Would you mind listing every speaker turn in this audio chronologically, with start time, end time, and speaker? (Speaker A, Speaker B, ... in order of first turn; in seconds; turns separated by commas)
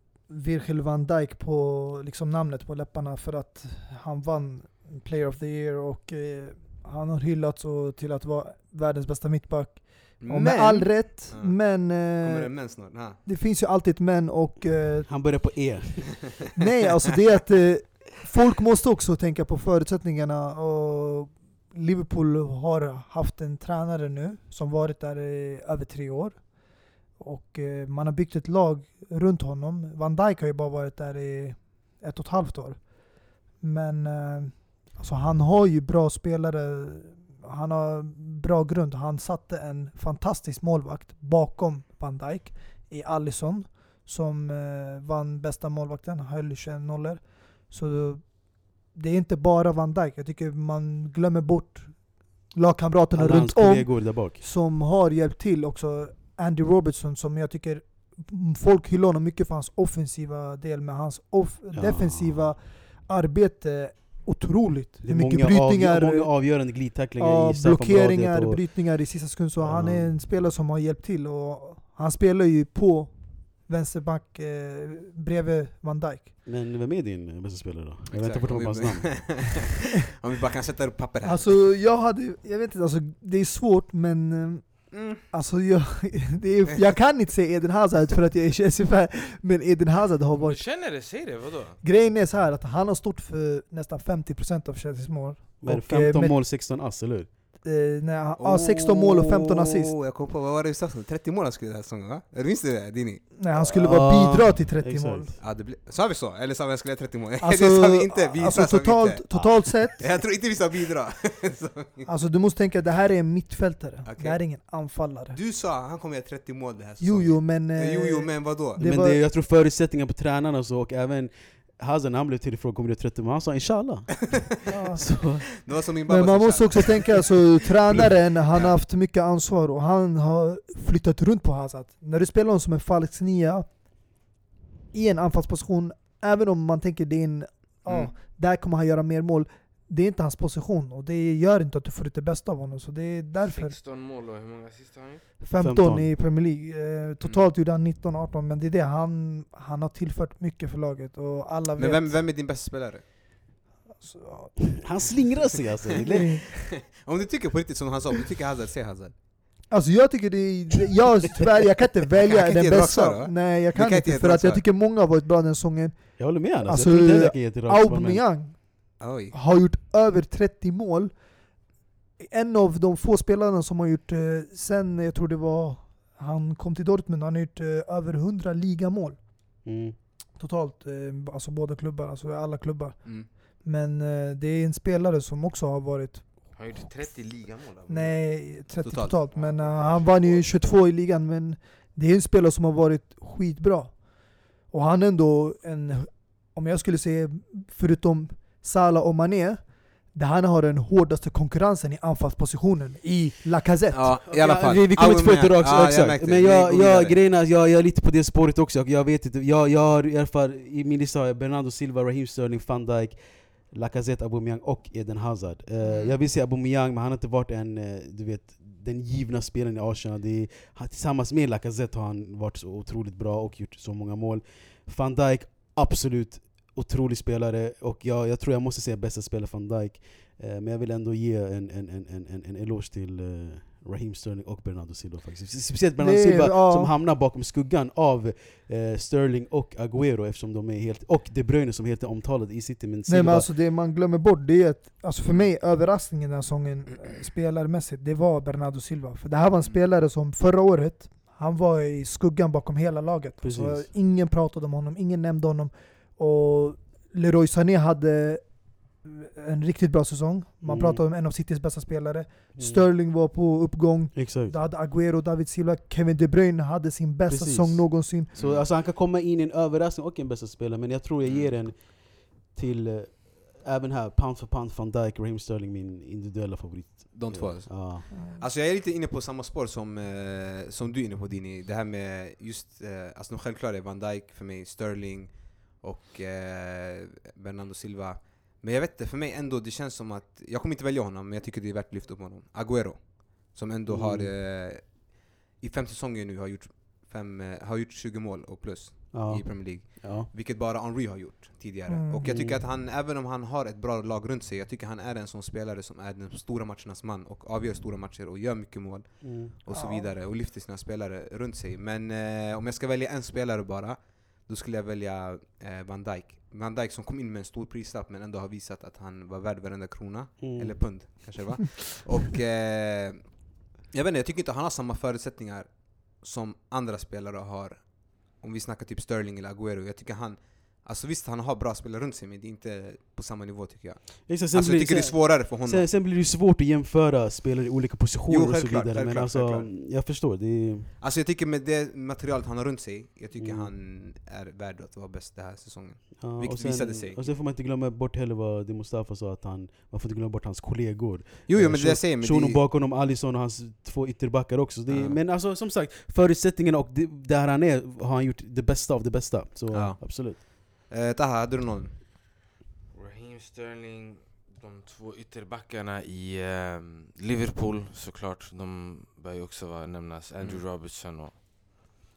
Speaker A: 0.3-15.4, Speaker B: 10.2-10.6, Speaker C: 10.3-10.9, Speaker B: 11.3-13.2, Speaker C: 15.1-16.4, Speaker A: 16.6-76.3, Speaker C: 53.1-54.4, Speaker C: 61.7-62.5, Speaker C: 65.0-68.6, Speaker C: 69.6-70.4, Speaker C: 76.4-79.6, Speaker B: 78.1-81.6, Speaker A: 81.2-90.7, Speaker B: 84.9-85.2, Speaker D: 90.4-91.8, Speaker A: 91.8-96.4, Speaker C: 95.6-97.3, Speaker A: 97.6-99.9, Speaker B: 98.4-103.3, Speaker A: 103.4-105.3, Speaker C: 103.5-105.4, Speaker B: 105.4-112.1, Speaker A: 107.4-110.0, Speaker A: 112.1-115.4, Speaker B: 114.0-114.4, Speaker B: 115.3-118.8, Speaker A: 117.0-119.2, Speaker C: 118.8-125.5, Speaker A: 124.7-125.5, Speaker B: 125.6-127.5, Speaker A: 126.1-133.7, Speaker A: 134.9-143.8, Speaker B: 137.8-138.1, Speaker D: 143.4-145.2, Speaker A: 145.4-152.2, Speaker C: 145.6-146.1, Speaker B: 151.8-153.0, Speaker A: 154.0-155.1, Speaker C: 154.8-156.6, Speaker B: 155.4-159.1, Speaker A: 156.1-156.5, Speaker A: 159.7-171.1, Speaker B: 162.3-164.6, Speaker C: 166.2-168.3, Speaker B: 169.0-169.3, Speaker A: 172.2-179.4, Speaker C: 179.6-179.9, Speaker A: 180.4-186.6, Speaker D: 186.5-188.2, Speaker A: 187.9-204.2, Speaker B: 188.8-190.6, Speaker B: 203.9-207.2, Speaker C: 204.3-243.5, Speaker B: 215.8-216.2, Speaker A: 236.0-236.9, Speaker A: 243.1-268.3, Speaker C: 253.4-253.9, Speaker C: 260.6-261.0, Speaker C: 262.6-262.9, Speaker C: 264.1-264.5, Speaker C: 267.3-278.2, Speaker B: 268.3-268.7, Speaker B: 271.2-271.5, Speaker B: 277.1-335.9, Speaker A: 278.1-278.4, Speaker C: 293.9-294.3, Speaker C: 299.1-300.3, Speaker A: 301.9-302.2, Speaker C: 302.2-302.6, Speaker C: 309.2-309.5, Speaker A: 309.7-310.1, Speaker C: 320.4-321.3, Speaker C: 334.2-340.9, Speaker B: 338.3-339.7, Speaker B: 341.0-347.3, Speaker C: 343.4-343.7, Speaker C: 346.2-360.4, Speaker B: 351.5-352.6, Speaker B: 354.9-355.2, Speaker B: 359.7-361.9, Speaker D: 362.9-371.4